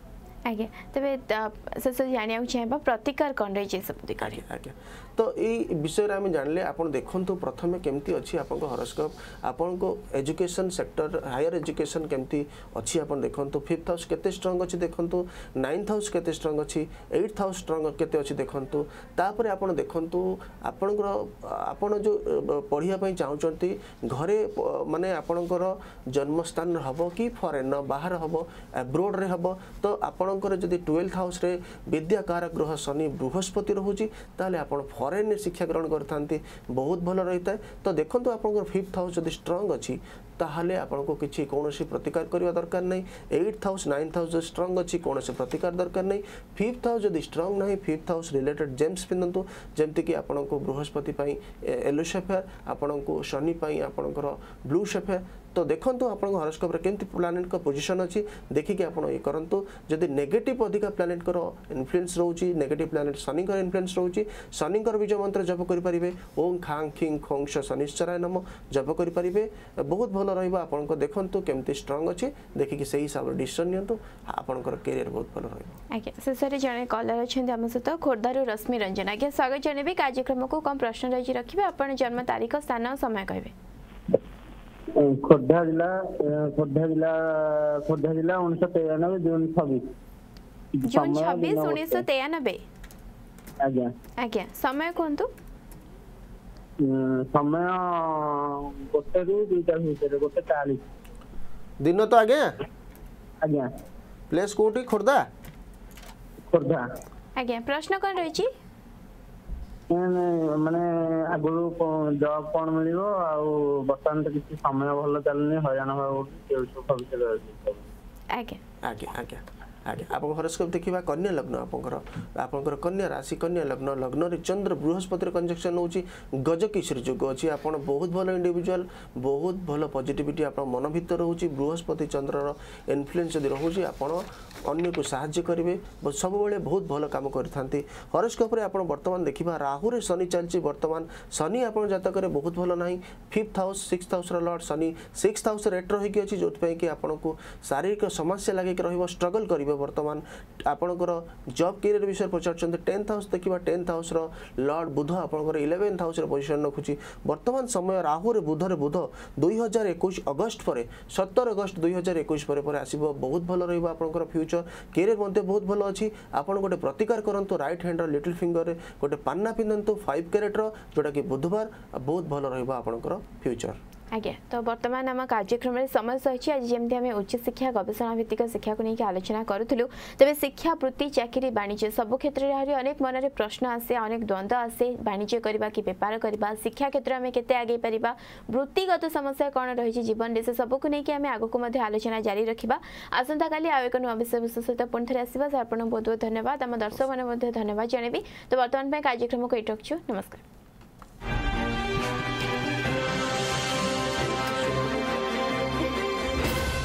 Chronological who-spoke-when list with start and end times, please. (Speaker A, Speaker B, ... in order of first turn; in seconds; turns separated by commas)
Speaker A: 0.5-4.4, Speaker B: 4.2-75.8, Speaker A: 75.9-83.5, Speaker C: 85.0-89.9, Speaker C: 90.8-92.0, Speaker A: 90.8-92.6, Speaker C: 93.6-93.9, Speaker A: 94.2-95.3, Speaker C: 96.8-100.8, Speaker B: 101.8-102.5, Speaker C: 103.4-103.7, Speaker B: 104.3-105.2, Speaker C: 106.5-106.8, Speaker A: 107.4-108.5, Speaker C: 109.9-117.9, Speaker A: 118.3-118.6, Speaker B: 118.8-173.8, Speaker A: 174.1-200.4, Speaker B: 204.1-205.8